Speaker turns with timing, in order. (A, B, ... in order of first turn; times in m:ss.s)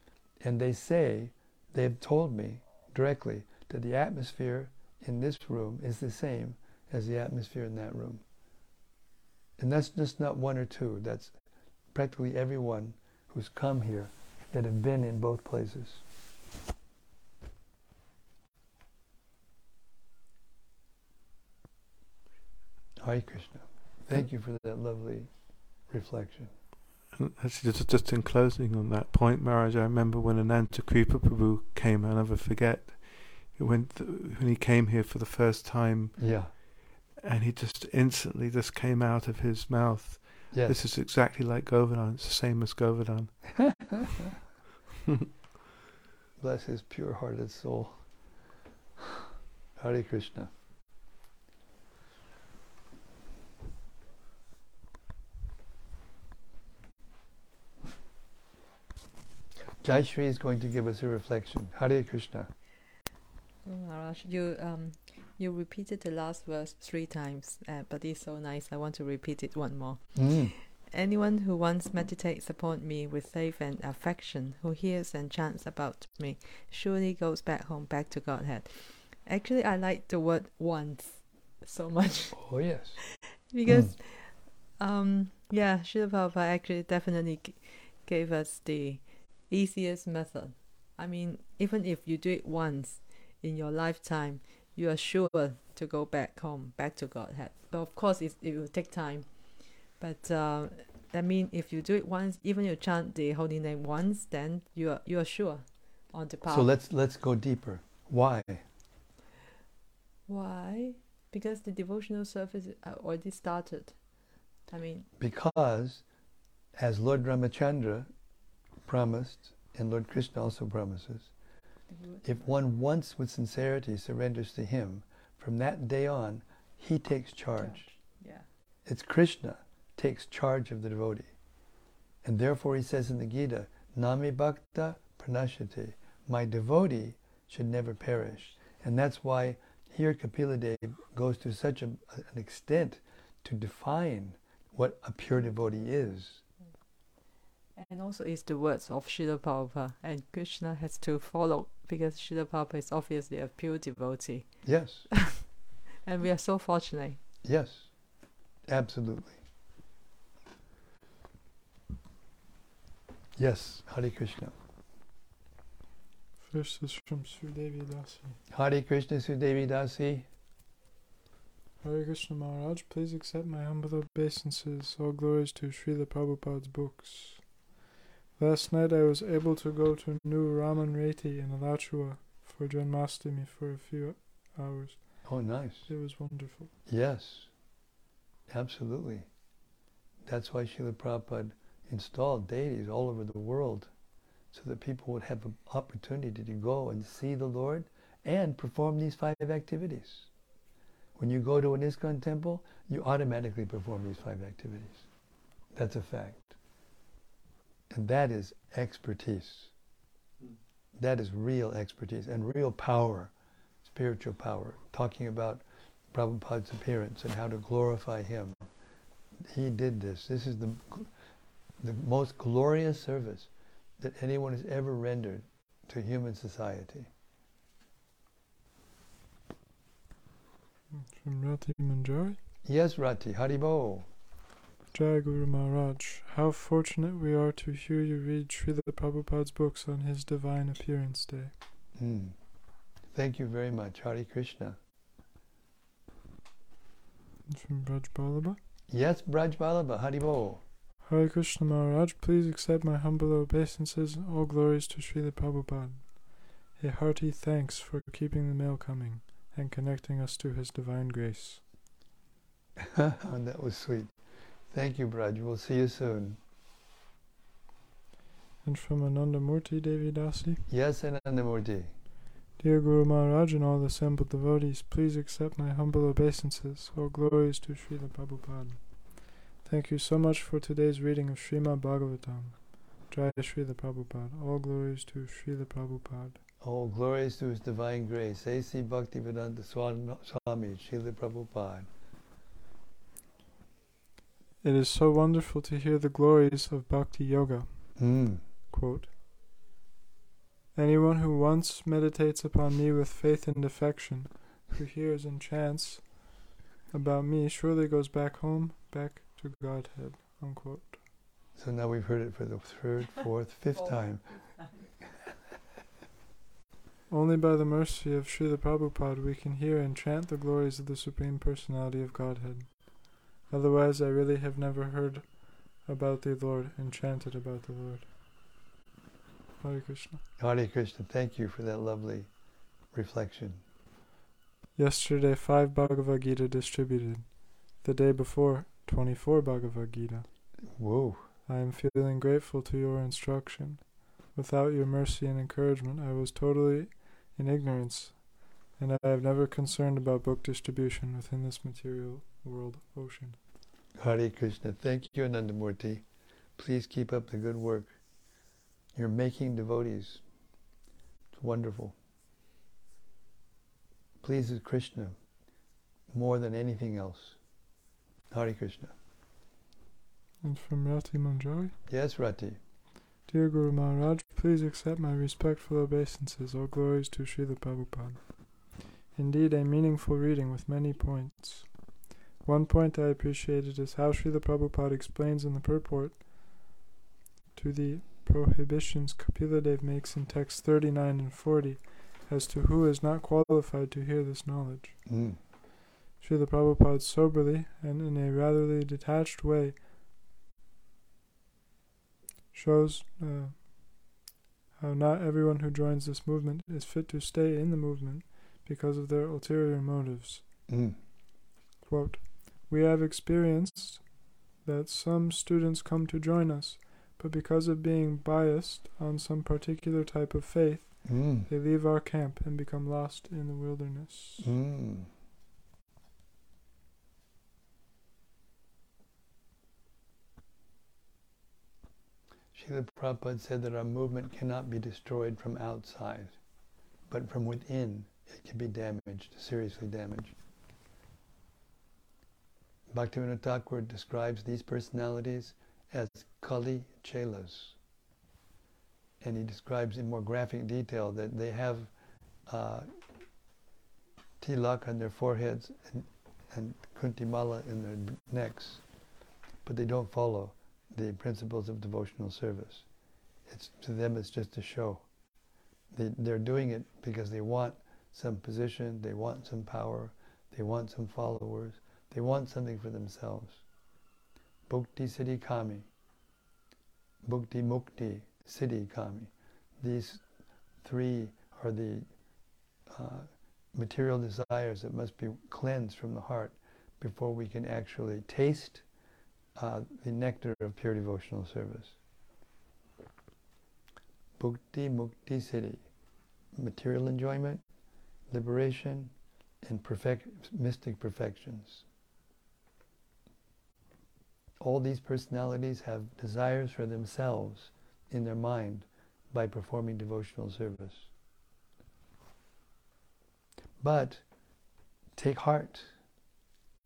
0:00.4-0:08.2 A
0:09.6-0:11.3 A
0:11.9-0:16.0 A
0:23.0-0:25.3 A
0:25.9-0:26.5 A
0:27.1-0:36.6 B
0:36.2-0:36.5 A
0:37.2-0:44.0 B
0:40.5-0:40.8 A
0:46.4-0:48.0 A
0:49.8-0:50.5 A
0:59.8-1:02.5 A
1:03.6-1:22.6 C
1:10.2-1:10.5 A
1:22.4-1:23.0 A
1:23.1-1:46.7 C
1:23.7-1:23.9 A
1:46.5-1:48.6 A
1:50.3-1:55.1 C
1:55.2-1:56.0 A
1:56.8-1:58.1 A
1:58.9-2:01.3 A
2:01.9-2:02.3 C
2:02.2-2:07.8 A
2:07.6-2:08.5 C
2:08.9-2:11.3 A
2:12.2-2:26.4 A
2:27.8-2:37.2 C
2:34.6-2:35.1 A
2:37.4-2:37.9 A
2:38.7-2:39.4 A
2:43.4-2:44.6 A
2:46.4-2:48.4 D
2:48.5-2:50.3 A
2:51.8-2:57.6 D
2:58.4-3:06.7 D
3:05.2-3:05.9 A
3:06.9-3:07.5 A
3:08.5-3:09.3 A
3:10.3-3:13.9 A
3:14.5-3:20.3 A
3:21.2-3:25.1 A
3:25.7-3:26.6 A
3:27.9-3:29.7 A
3:31.0-3:33.3 A
3:33.8-3:38.6 A
3:39.4-3:41.1 A
3:41.8-3:47.1 A
3:50.9-3:52.4 D
3:52.6-3:54.1 A
3:54.9-4:01.5 D
4:02.0-4:02.4 A
4:03.1-4:04.8 A
4:07.5-4:08.6 D
4:08.9-4:10.6 A
4:11.0-4:21.6 D
4:22.8-4:24.1 A
4:24.7-4:26.4 A
4:28.6-4:30.6 D
4:30.7-4:31.9 A
4:32.6-4:46.4 D
4:46.6-4:51.9 A
4:54.6-4:58.2 D
4:58.0-4:58.4 A
4:58.7-4:59.1 D
5:00.7-5:11.0 D
5:11.6-5:14.6 A
5:17.1-5:28.1 D
5:29.6-5:30.2 D
5:30.4-5:32.3 A
5:32.9-5:33.6 A
5:34.8-5:40.3 D
5:40.8-5:41.2 A
5:41.5-5:53.4 D
5:54.0-5:56.0 A
5:56.6-5:58.0 A
5:58.9-6:00.2 A
6:01.4-6:02.0 A
6:04.2-6:05.2 A
6:06.1-6:07.4 A
6:08.3-6:08.9 A
6:10.4-6:11.8 D
6:11.9-6:12.6 A
6:13.3-6:26.7 D
6:27.6-6:35.0 D
6:35.1-6:35.4 A
6:36.2-6:39.8 D
6:42.5-6:44.1 D
6:44.8-6:50.4 D
6:50.7-6:51.0 A
6:51.8-7:04.5 D
7:01.0-7:01.5 A
7:04.4-7:05.1 A
7:12.5-7:16.4 A
7:17.1-7:20.4 A
7:22.9-7:27.8 A
7:29.2-7:31.9 A
7:32.5-7:32.9 A
7:34.4-7:38.8 A
7:39.6-7:42.9 A
7:43.5-7:45.0 A
7:45.9-7:53.6 A
7:54.7-7:55.9 A
7:57.2-8:00.2 A
8:00.8-8:02.1 A
8:02.9-8:08.8 A
8:09.6-8:12.0 A
8:14.4-8:15.8 A
8:16.6-8:17.6 A
8:18.3-8:19.1 A
8:19.6-8:21.8 A
8:24.6-8:31.1 A
8:33.8-8:34.2 A
8:35.2-8:35.9 A